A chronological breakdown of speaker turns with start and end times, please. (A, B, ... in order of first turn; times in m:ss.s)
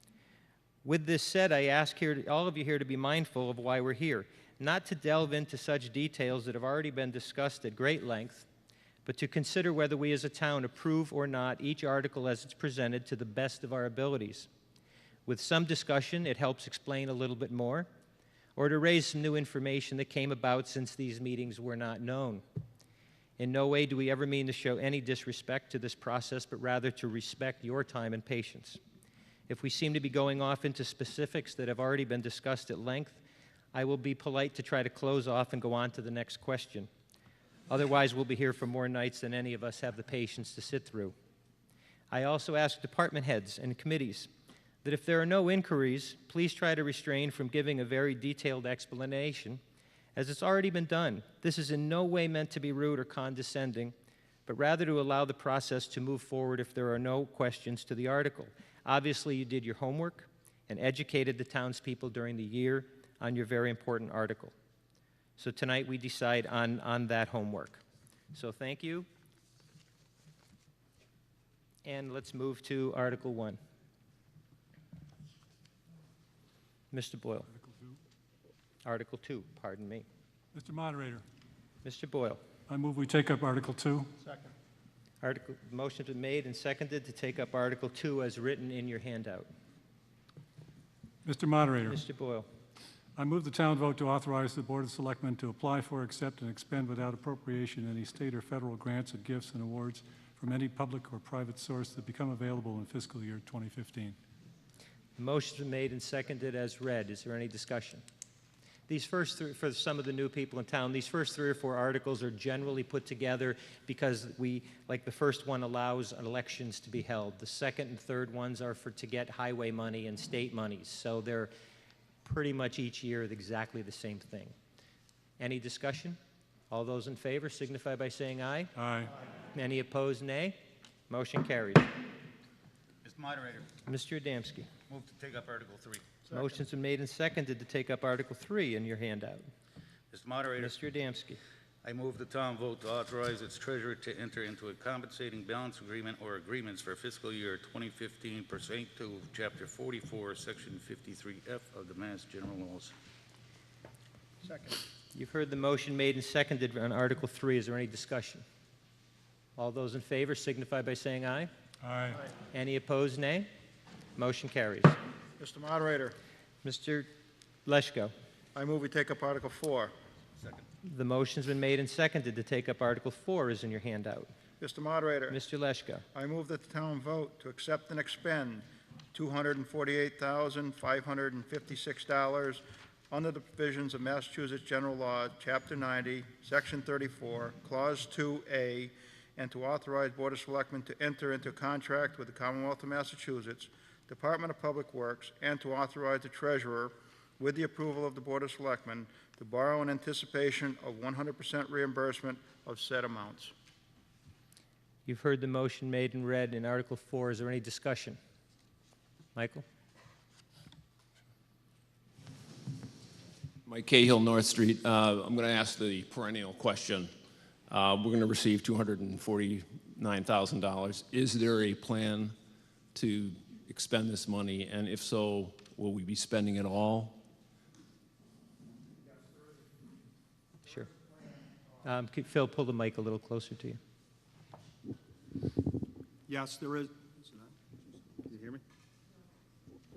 0:00.8-0:08.5 A
0:09.0-0:14.5 A
0:15.3-0:17.9 A
0:18.6-0:22.4 A
0:23.4-0:28.8 A
0:29.5-0:33.2 A
0:33.7-0:36.9 A
0:37.7-0:41.2 A
0:42.1-0:44.3 A
0:44.8-0:49.6 A
0:50.2-0:53.9 A
0:54.5-1:04.5 A
1:05.4-1:07.8 A
1:08.3-1:09.1 A
1:11.8-1:13.6 A
1:16.9-1:17.5 A
1:17.5-1:18.0 B
1:18.8-1:20.1 A
1:20.6-1:21.2 B
1:21.8-1:22.4 A
1:22.7-1:24.1 B
1:24.2-1:24.5 C
1:25.2-1:29.5 A
1:31.2-1:32.0 B
1:31.9-1:32.4 A
1:33.2-1:44.2 B
1:45.2-1:48.0 A
1:48.9-2:01.5 A
2:02.2-2:04.6 A
2:05.4-2:06.2 A
2:06.7-2:08.7 A
2:08.8-2:09.1 B
2:09.5-2:10.6 A
2:11.1-2:11.9 A
2:13.0-2:13.7 D
2:13.8-2:14.7 A
2:14.9-2:16.1 D
2:16.3-2:19.5 A
2:20.1-2:20.8 D
2:20.6-2:21.4 A
2:21.8-2:32.9 D
2:35.1-2:38.4 A
2:39.6-2:41.5 A
2:41.8-2:42.2 B
2:42.5-2:43.5 A
2:44.2-2:45.0 A
2:45.4-2:46.2 C
2:46.6-2:47.1 A
2:47.7-2:48.1 A
2:48.6-2:49.9 C
2:50.8-2:54.3 A
2:54.6-2:55.4 C
2:55.3-2:56.0 A
2:56.1-3:23.5 C
3:25.1-3:28.2 A
3:29.4-3:29.6 A
3:33.6-3:37.1 E
3:37.7-3:42.4 E
3:42.9-3:47.2 E
3:51.8-3:53.8 A
3:56.3-3:58.6 F